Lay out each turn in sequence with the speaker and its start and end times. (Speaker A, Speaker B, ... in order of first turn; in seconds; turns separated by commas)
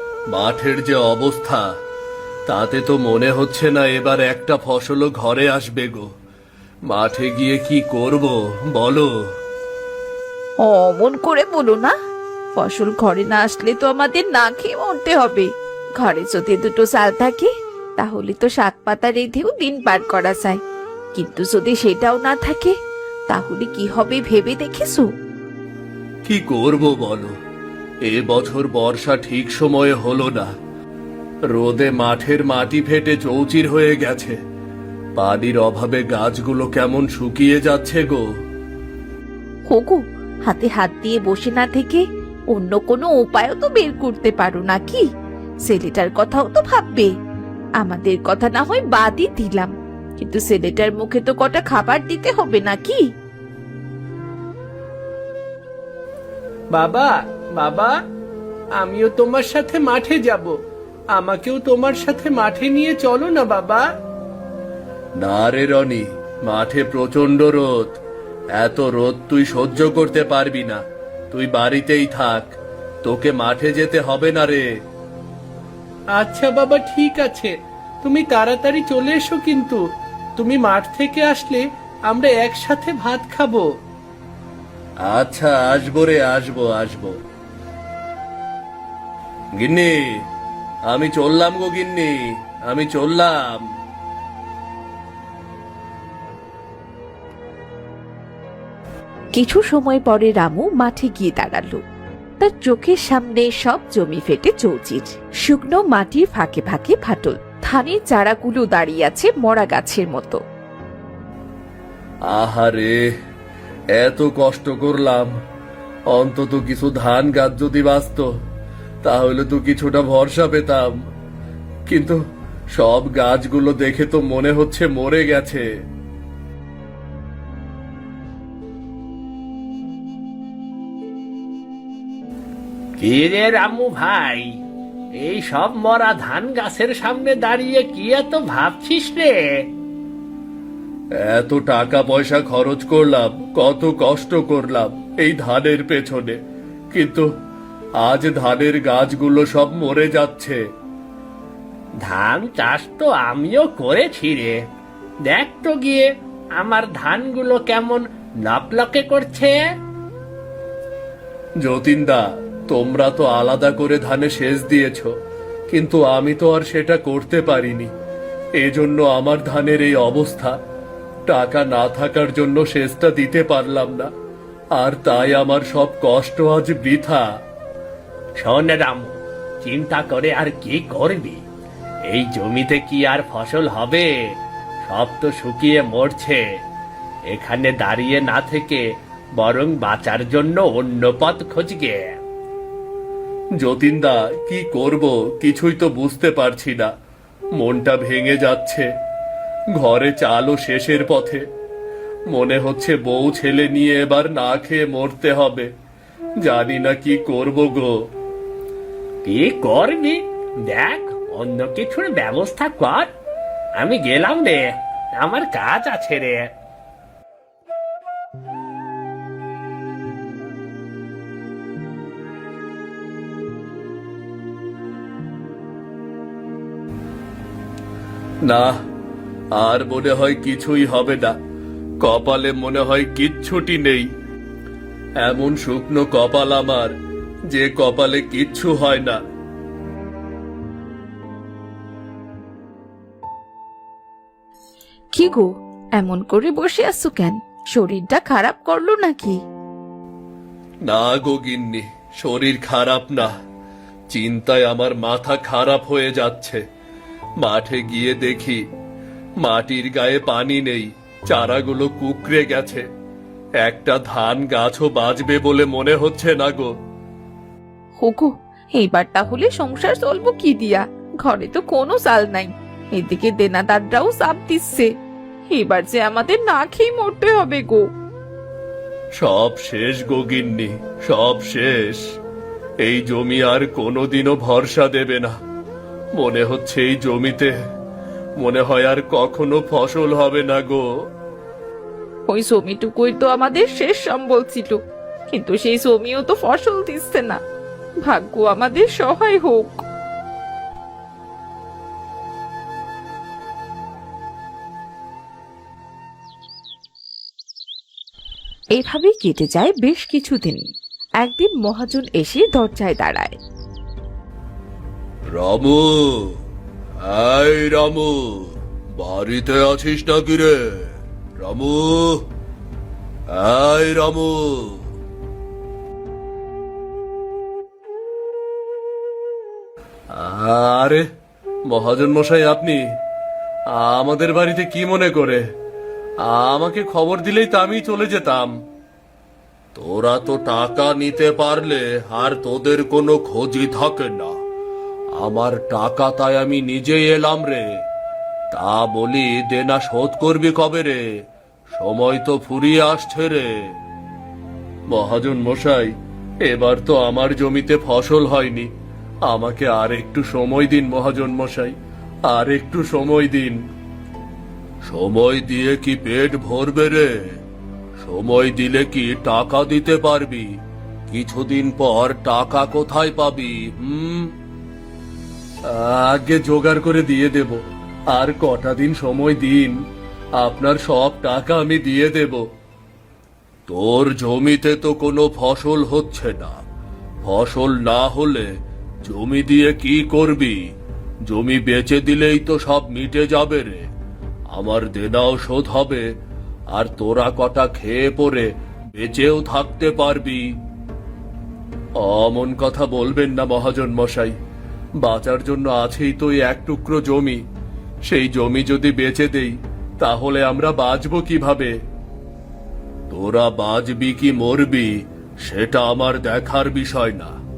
Speaker A: 0.3-1.6, Speaker A: 2.5-6.1, Speaker A: 6.9-9.1, Speaker B: 10.6-11.9, Speaker B: 12.5-20.6, Speaker B: 21.1-22.8, Speaker B: 23.3-25.1, Speaker A: 26.3-27.3, Speaker A: 28.1-30.5, Speaker A: 31.5-34.4, Speaker A: 35.2-38.3, Speaker B: 39.7-45.1, Speaker B: 45.6-47.1, Speaker B: 47.8-53.0, Speaker C: 56.7-58.0, Speaker C: 58.8-60.5, Speaker C: 61.1-63.9, Speaker A: 65.2-68.0, Speaker A: 68.5-74.6, Speaker C: 76.1-79.8, Speaker C: 80.4-83.7, Speaker A: 85.0-87.2, Speaker A: 89.6-90.2, Speaker A: 90.9-93.6, Speaker B: 99.3-101.8, Speaker B: 102.4-110.4, Speaker A: 112.3-113.1, Speaker A: 113.9-115.3, Speaker A: 116.1-118.3, Speaker A: 119.0-120.9, Speaker A: 121.9-122.2, Speaker A: 122.7-125.6, Speaker C: 133.0-134.5, Speaker C: 135.2-139.4, Speaker A: 141.2-146.4, Speaker A: 146.9-147.3, Speaker A: 148.0-150.6, Speaker C: 152.0-154.6, Speaker C: 155.2-159.6, Speaker A: 161.6-165.1, Speaker A: 165.7-167.9, Speaker A: 168.6-170.6, Speaker A: 171.3-174.1, Speaker A: 174.8-177.2, Speaker C: 178.4-181.4, Speaker C: 182.1-184.1, Speaker C: 184.8-186.4, Speaker C: 187.3-188.8, Speaker C: 189.4-192.1, Speaker A: 193.6-196.9, Speaker A: 197.6-198.9, Speaker A: 199.8-201.4, Speaker A: 202.3-205.7, Speaker A: 206.4-207.9, Speaker C: 209.2-213.1, Speaker C: 213.8-216.5, Speaker A: 228.4-228.8, Speaker A: 229.6-231.4, Speaker A: 232.0-234.1, Speaker A: 235.2-236.9, Speaker A: 237.5-239.2, Speaker B: 245.1-249.4, Speaker A: 250.9-253.3, Speaker A: 254.1-256.6, Speaker A: 257.4-258.6, Speaker A: 259.4-262.8, Speaker A: 263.6-266.7, Speaker B: 268.0-274.9, Speaker B: 275.5-277.9, Speaker A: 279.2-282.0, Speaker A: 282.8-285.3, Speaker A: 286.2-287.5, Speaker A: 288.4-290.8, Speaker B: 292.3-297.4, Speaker B: 298.0-299.9, Speaker B: 308.7-310.7, Speaker B: 311.2-313.4, Speaker A: 315.3-316.4, Speaker A: 317.0-322.2, Speaker A: 323.3-324.8, Speaker A: 330.1-331.1, Speaker A: 331.7-332.9, Speaker A: 333.7-335.4, Speaker A: 336.2-338.5, Speaker A: 339.8-344.4, Speaker A: 345.2-347.8, Speaker A: 348.5-351.2, Speaker A: 351.7-353.7, Speaker A: 354.9-355.9, Speaker A: 356.4-358.7, Speaker A: 359.2-361.8, Speaker A: 362.3-363.6, Speaker A: 364.8-367.4, Speaker A: 368.0-370.5, Speaker A: 371.1-374.3, Speaker A: 375.7-379.8, Speaker A: 380.4-382.4, Speaker A: 383.7-386.6, Speaker A: 387.2-390.6, Speaker A: 391.3-393.9, Speaker A: 394.5-396.1, Speaker A: 396.7-400.5, Speaker A: 402.0-404.3, Speaker A: 405.0-407.4, Speaker A: 408.1-411.7, Speaker A: 413.1-417.3